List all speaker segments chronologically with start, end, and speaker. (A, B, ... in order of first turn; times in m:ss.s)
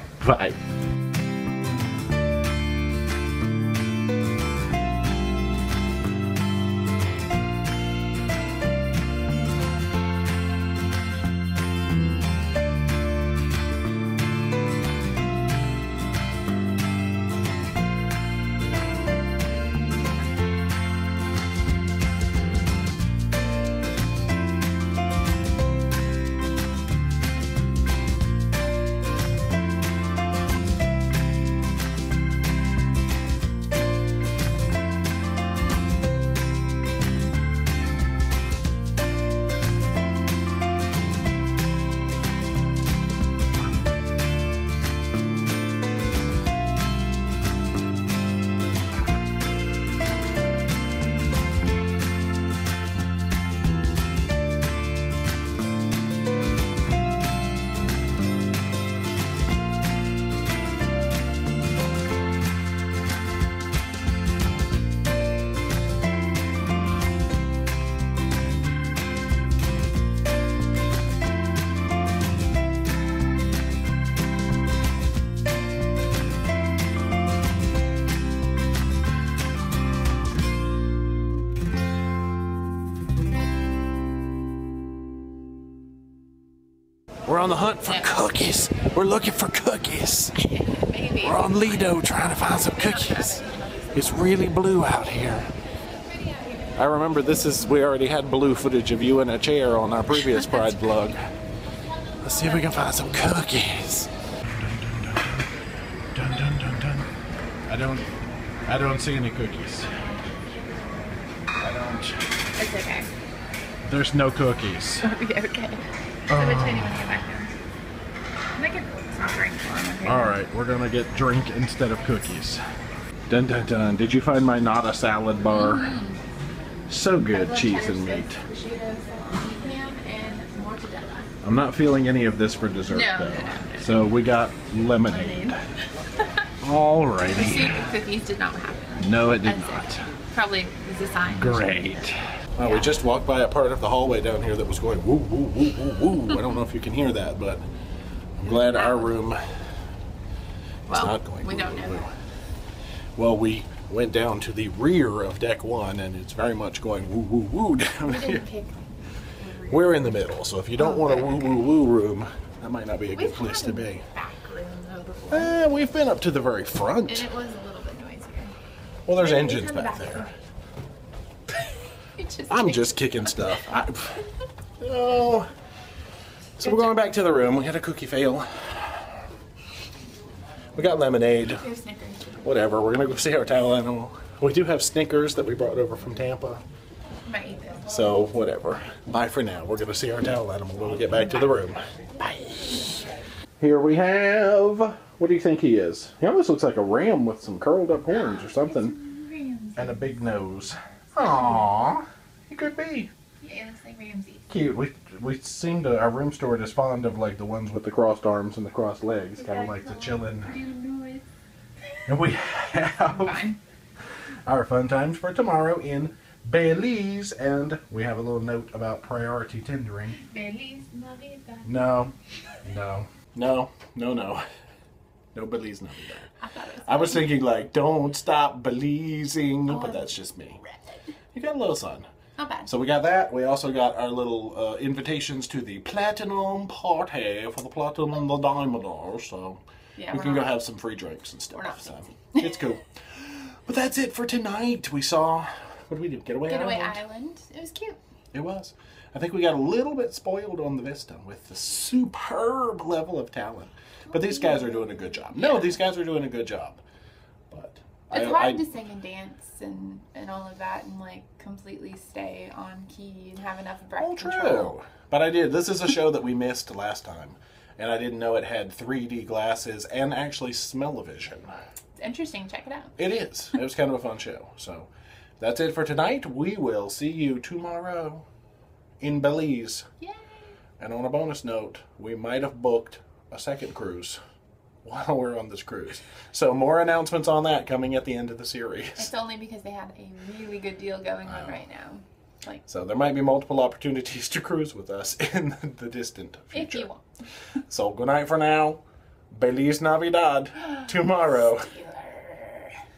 0:00.2-0:00.6 A
1:27.3-1:30.4 A
1:30.4-1:32.0 B
1:31.2-1:35.5 A
1:32.6-1:34.4 B
1:36.8-1:41.2 A
1:40.1-1:41.1 B
1:42.2-1:47.1 A
1:42.5-1:43.1 B
1:47.7-1:48.1 A
1:48.7-1:49.9 A
1:49.9-1:50.9 B
1:51.6-1:52.2 A
1:52.6-1:53.1 B
1:53.9-1:55.1 A
1:55.0-1:57.6 B
1:56.3-1:57.0 A
1:58.6-2:00.4 B
2:00.0-2:02.6 A
2:03.3-2:06.0 A
2:05.5-2:06.2 B
2:06.9-2:08.4 A
2:07.3-2:11.3 B
2:11.4-2:15.5 A
2:12.9-2:13.9 B
2:15.0-2:16.5 B
2:16.6-2:17.8 A
2:17.3-2:23.0 B
2:19.0-2:20.0 A
2:21.3-2:27.6 A
2:28.4-2:29.4 A
2:28.5-2:29.1 B
2:30.9-2:32.1 B
2:30.9-2:32.1 A
2:33.2-2:38.4 A
2:38.0-2:40.2 B
2:39.7-2:44.0 A
2:40.8-2:41.7 B
2:43.1-2:45.6 B
2:45.3-2:47.3 A
2:47.1-2:48.5 B
2:49.1-2:50.3 A
2:49.2-2:50.3 B
2:52.2-2:53.6 B
2:52.5-2:54.2 A
2:54.8-2:55.5 A
2:56.6-2:59.2 A
2:56.6-2:56.9 B
3:00.8-3:01.6 A
3:01.5-3:02.5 B
3:02.4-3:06.6 A
3:07.2-3:07.9 B
3:07.9-3:13.0 A
3:13.6-3:19.0 A
3:18.1-3:20.1 B
3:19.8-3:23.1 A
3:23.4-3:24.5 B
3:24.5-3:30.5 A
3:29.4-3:31.2 B
3:32.1-3:33.4 A
3:33.1-3:33.6 B
3:34.5-3:40.2 A
3:40.1-3:41.8 B
3:41.7-3:44.4 A
3:45.4-3:46.3 A
3:46.4-3:47.4 B
3:46.9-3:50.6 A
3:49.7-3:50.2 B
3:51.3-3:52.1 A
3:52.4-3:52.7 B
3:52.7-4:07.0 A
4:00.0-4:00.6 B
4:01.5-4:02.7 B
4:06.4-4:08.0 B
4:08.3-4:16.8 A
4:14.1-4:15.8 B
4:17.5-4:18.7 A
4:18.1-4:24.7 B
4:24.0-4:31.5 A
4:32.0-4:32.9 B
4:33.0-4:38.2 A
4:39.0-4:39.8 A
4:40.8-4:44.2 A
4:44.8-4:49.1 A
4:49.0-4:52.6 B
4:51.3-4:51.6 A
4:52.7-4:56.9 A
4:56.5-4:57.0 B
4:57.7-4:58.8 A
4:59.3-5:01.7 A
5:01.2-5:02.8 B